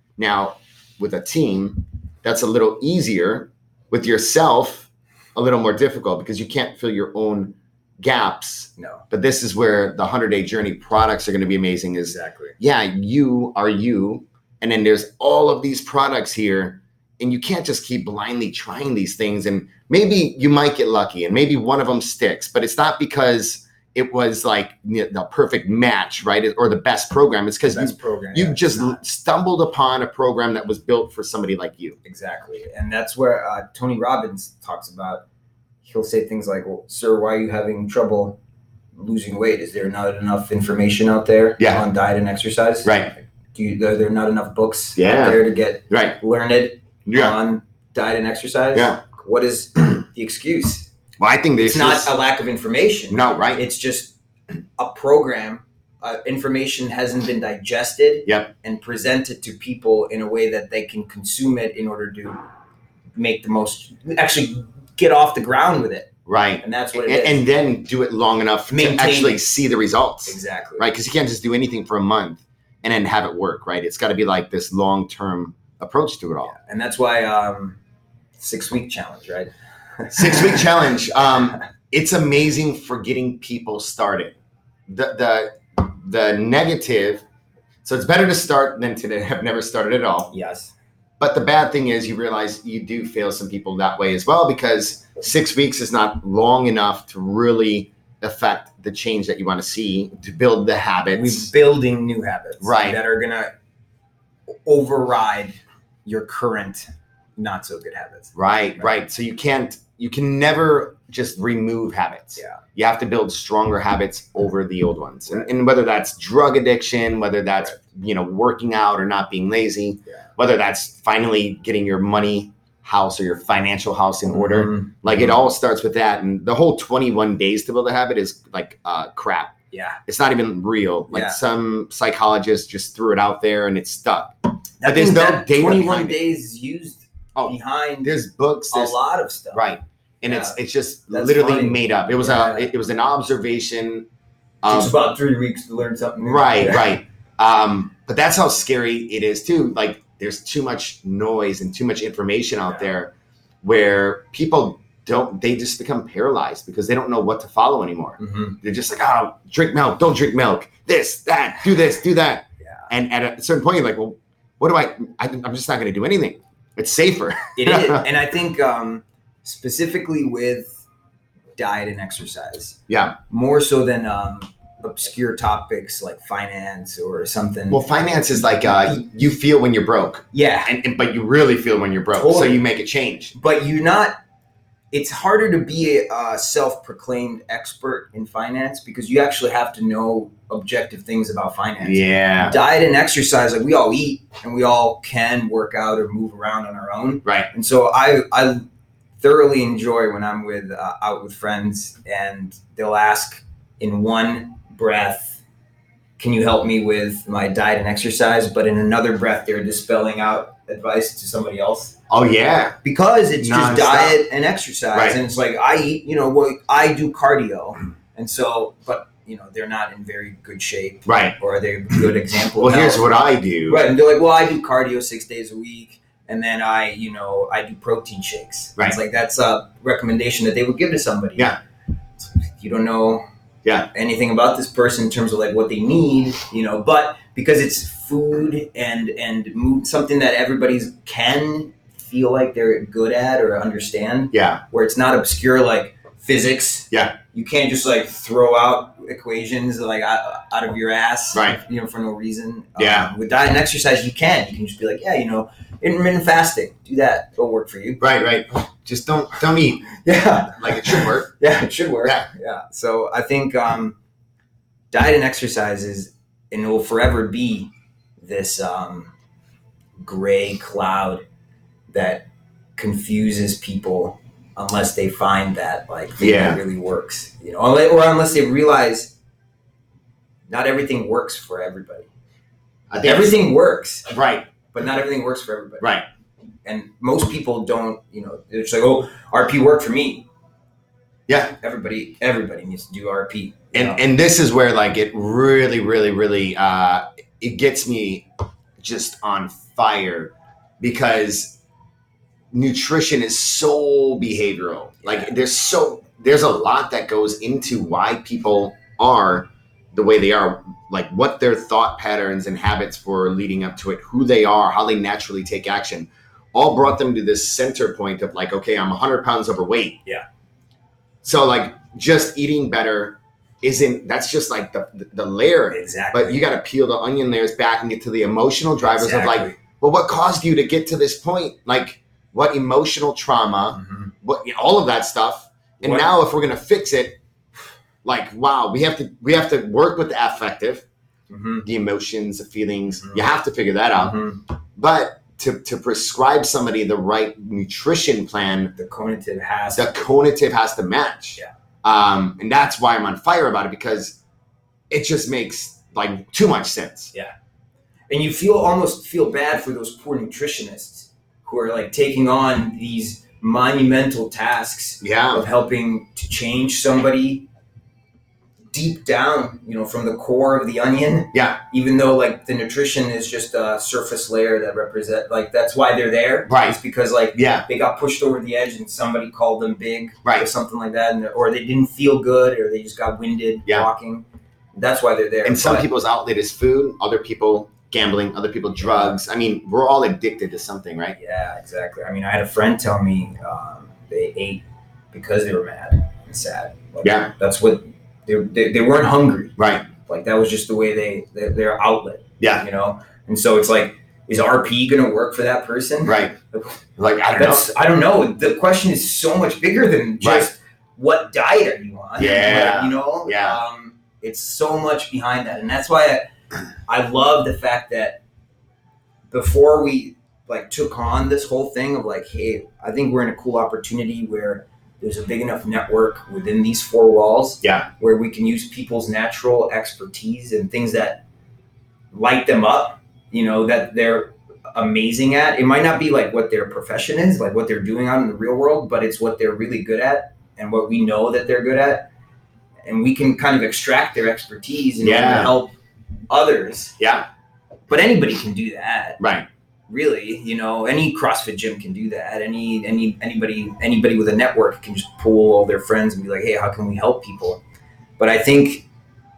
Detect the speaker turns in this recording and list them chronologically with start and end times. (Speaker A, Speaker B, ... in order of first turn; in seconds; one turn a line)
Speaker A: 0.2-32.0
Speaker B: 8.8-9.0
Speaker B: 12.1-12.6
Speaker B: 27.7-29.0
Speaker B: 32.0-35.2
Speaker B: 35.8-38.4
Speaker B: 38.9-43.0
Speaker A: 41.6-41.8
Speaker A: 42.8-43.1
Speaker B: 43.5-50.9
Speaker A: 45.0-46.2
Speaker A: 47.0-47.4
Speaker A: 48.7-49.0
Speaker A: 51.2-52.1
Speaker B: 51.6-54.1
Speaker A: 53.1-53.6
Speaker B: 54.8-62.4
Speaker A: 58.2-58.5
Speaker B: 63.1-67.4
Speaker A: 66.2-76.5
Speaker B: 68.7-69.4
Speaker B: 70.3-70.9
Speaker B: 76.4-77.8
Speaker B: 78.4-80.7
Speaker A: 80.1-84.3
Speaker A: 84.9-87.2
Speaker A: 87.8-90.3
Speaker B: 90.3-90.7
Speaker A: 91.2-101.5
Speaker B: 101.1-103.5
Speaker A: 102.6-103.0
Speaker B: 104.6-108.3
Speaker A: 108.3-129.5
Speaker B: 124.3-125.3
Speaker B: 129.7-130.0
Speaker A: 130.1-136.2
Speaker B: 131.1-131.4
Speaker B: 134.8-138.2
Speaker A: 137.3-139.0
Speaker B: 138.7-139.7
Speaker A: 139.5-144.1
Speaker B: 140.2-140.6
Speaker B: 141.1-142.7
Speaker A: 144.6-144.9
Speaker B: 144.7-146.9
Speaker A: 146.2-168.0
Speaker B: 158.2-158.6
Speaker B: 167.6-170.8
Speaker B: 171.6-177.8
Speaker A: 172.9-173.2
Speaker A: 177.7-183.3
Speaker B: 180.3-180.7
Speaker B: 182.1-182.6
Speaker B: 183.3-184.2
Speaker B: 184.9-198.6
Speaker A: 191.8-192.6
Speaker B: 199.2-205.4
Speaker B: 206.2-211.9
Speaker A: 212.1-212.8
Speaker B: 212.8-223.1
Speaker A: 213.4-214.2
Speaker A: 214.9-215.2
Speaker A: 221.1-221.4
Speaker A: 222.6-223.9
Speaker B: 223.7-231.6
Speaker B: 232.2-233.2
Speaker B: 233.9-258.0
Speaker A: 244.3-244.6
Speaker A: 246.9-247.2
Speaker A: 251.3-251.6
Speaker A: 252.8-253.1
Speaker A: 258.0-260.0
Speaker B: 260.0-263.9
Speaker A: 260.5-261.3
Speaker B: 264.9-269.1
Speaker B: 270.0-271.2
Speaker B: 271.9-272.2
Speaker B: 272.8-279.1
Speaker A: 276.2-276.6
Speaker B: 280.5-282.1
Speaker A: 282.9-283.4
Speaker B: 283.0-284.1
Speaker A: 284.1-284.5
Speaker B: 284.7-285.9
Speaker B: 286.6-290.3
Speaker A: 291.3-291.5
Speaker B: 291.6-294.0
Speaker A: 293.7-298.3
Speaker A: 298.8-301.6
Speaker A: 302.5-320.0
Speaker A: 321.2-337.2
Speaker B: 325.7-326.4
Speaker B: 328.8-329.6
Speaker B: 333.7-334.1
Speaker B: 335.8-336.1
Speaker A: 338.0-340.8
Speaker B: 341.3-341.6
Speaker A: 341.6-344.2
Speaker B: 344.0-344.4
Speaker A: 344.7-348.7
Speaker B: 348.8-349.9
Speaker A: 349.7-354.2
Speaker A: 354.9-357.1
Speaker B: 358.1-367.5
Speaker A: 365.0-365.4
Speaker B: 368.7-384.2
Speaker A: 371.3-371.6
Speaker A: 376.5-376.8
Speaker A: 377.3-377.6
Speaker B: 384.7-385.9
Speaker A: 385.4-391.1
Speaker B: 391.2-406.7
Speaker A: 397.0-397.3
Speaker A: 399.6-399.9
Speaker A: 406.0-406.3
Speaker A: 407.0-407.7
Speaker B: 407.3-416.3
Speaker A: 410.2-410.5
Speaker A: 412.2-413.6
Speaker B: 416.9-418.2
Speaker B: 419.3-431.2
Speaker A: 427.6-427.9
Speaker B: 432.1-442.1
Speaker B: 442.8-445.7
Speaker A: 445.0-445.5
Speaker B: 446.3-447.0
Speaker A: 447.0-447.3
Speaker B: 447.9-449.2
Speaker A: 449.2-449.5
Speaker B: 449.9-457.6
Speaker B: 458.2-458.9